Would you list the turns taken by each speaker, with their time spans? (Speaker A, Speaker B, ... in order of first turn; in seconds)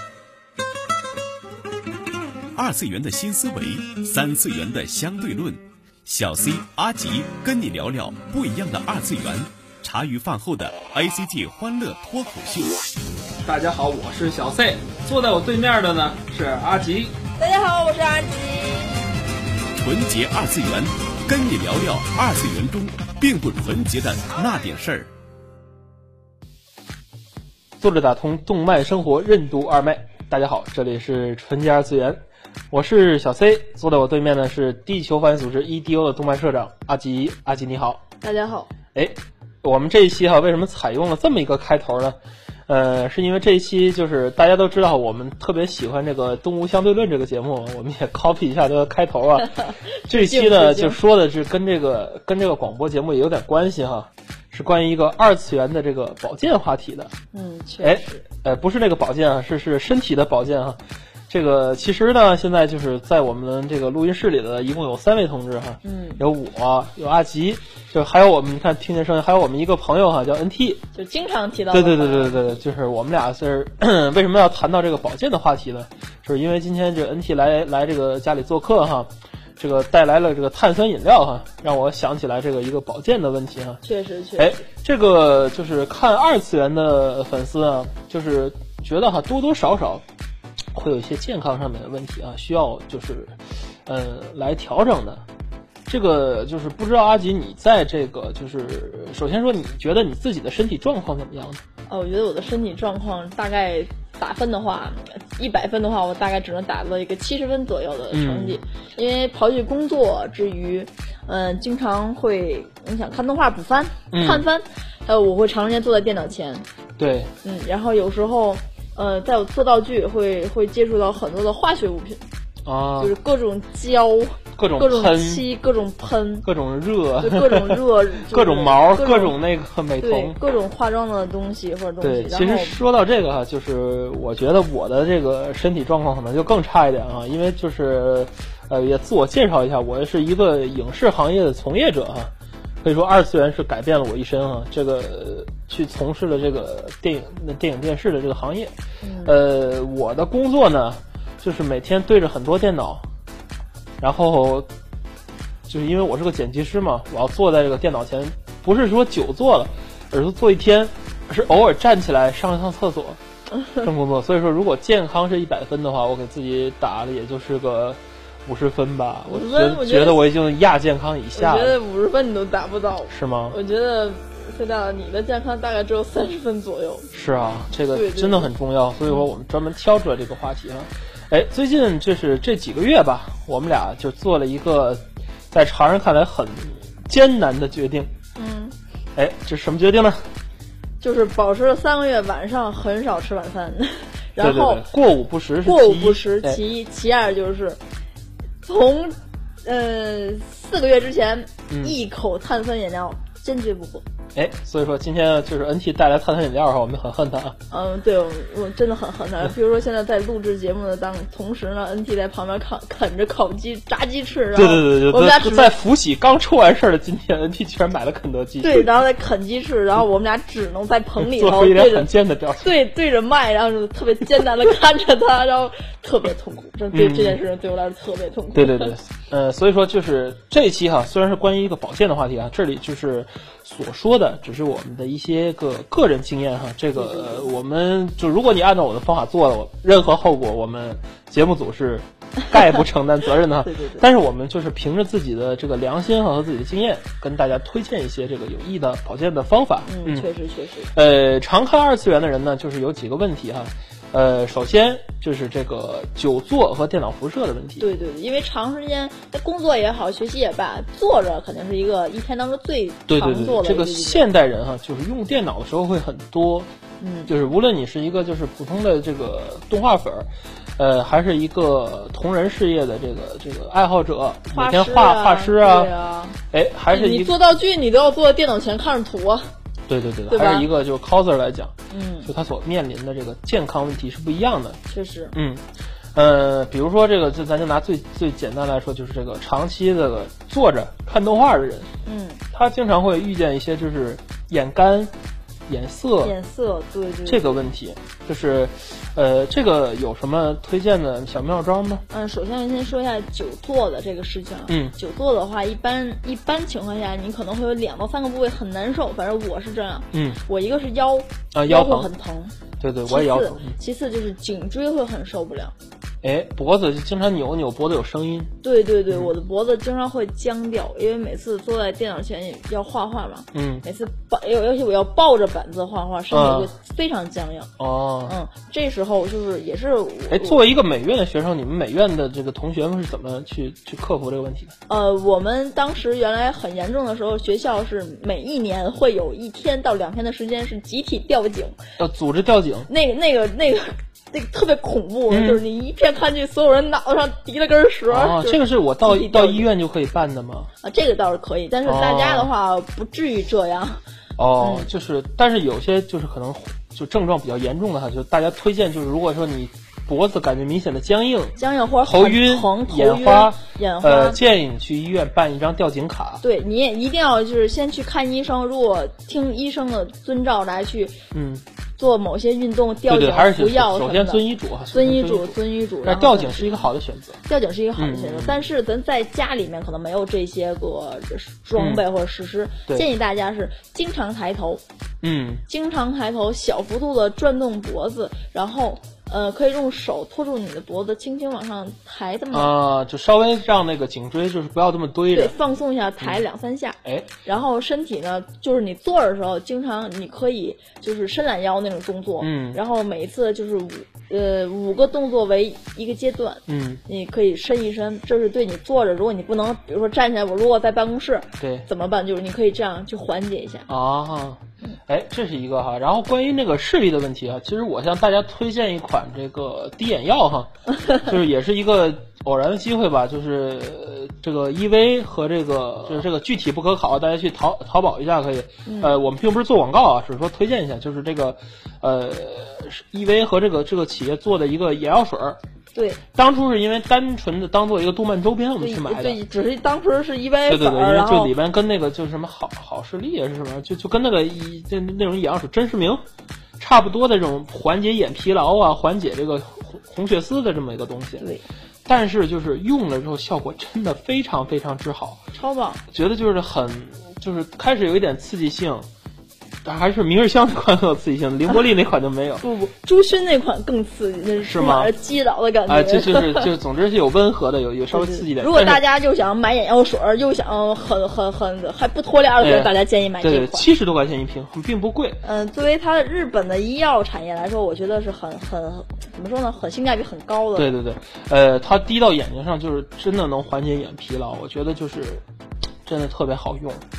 Speaker A: 2.5-13.0, 19.8-25.1
Speaker B: 13.4-17.1, 27.8-32.2, 32.7-38.0, 38.9-57.1, 57.8-70.8, 71.7-83.8, 84.4-90.0, 90.7-95.2, 95.9-101.6, 108.1-108.6, 114.1-114.5, 117.0-117.3, 122.7-123.2, 124.6-125.5, 126.4-130.4, 132.0-142.3, 142.8-153.1, 154.0-154.7, 155.7-163.2, 163.8-171.8, 173.1-173.6, 177.1-188.1, 189.2-190.3, 194.4-196.6, 201.7-202.0, 204.3-207.6, 214.6-218.9, 221.2-222.7, 226.9-227.4, 228.5-250.3, 250.9-257.9, 263.1-266.7, 267.3-275.9, 276.5-277.3, 279.9-281.7, 282.2-284.8, 285.3-291.9, 292.5-295.1, 295.7-296.4, 297.3-302.0, 304.7-304.9, 310.1-310.4, 311.5-312.1, 312.8-313.7, 316.2-318.5, 323.5-323.8, 326.3-326.7, 327.8-328.3, 330.3-334.7, 342.0-342.9, 345.3-345.6, 348.1-350.7, 351.9-352.5, 354.4-366.4, 371.3-371.6, 373.1-377.4, 378.0-378.6, 381.8-382.0, 385.2-385.6, 392.5-395.6, 402.4-402.8, 406.7-407.0, 411.6-411.9, 413.9-435.6, 436.3-439.4, 440.7-446.2, 446.8-451.4, 452.1-455.4, 456.1-459.1, 459.8-462.6, 464.6-465.1, 465.9-469.0, 472.6-475.4, 480.8-485.4, 486.1-487.0
Speaker C: 17.4-19.0, 38.2-38.7, 49.6-51.0, 57.3-58.2, 65.8-66.2, 71.0-72.6, 83.8-84.6, 101.9-116.7, 117.4-122.2, 123.0-126.5, 127.2-129.3, 130.0-132.8, 149.0-149.4, 163.6-163.8, 169.3-170.2, 171.3-177.1, 177.9-178.5, 188.4-188.8, 191.0-194.9, 195.6-197.8, 198.6-204.0, 207.7-215.7, 218.6-229.0, 236.9-237.5, 243.6-244.1, 249.9-250.9, 257.8-264.3, 267.0-267.3, 274.5-276.4, 276.9-279.5, 280.3-280.7, 281.9-282.3, 284.9-285.4, 292.1-292.4, 296.2-297.6, 302.1-312.6, 313.1-315.7, 318.6-327.7, 328.3-330.6, 334.9-341.8, 342.9-349.7, 350.8-354.0, 354.6-354.9, 361.6-364.4, 366.4-371.2, 372.0-376.9, 377.4-384.8, 385.7-392.8, 395.3-413.9, 428.9-429.2, 435.9-436.2, 438.8-441.5, 455.5-456.0, 462.6-466.7, 468.1-473.9, 475.4-480.9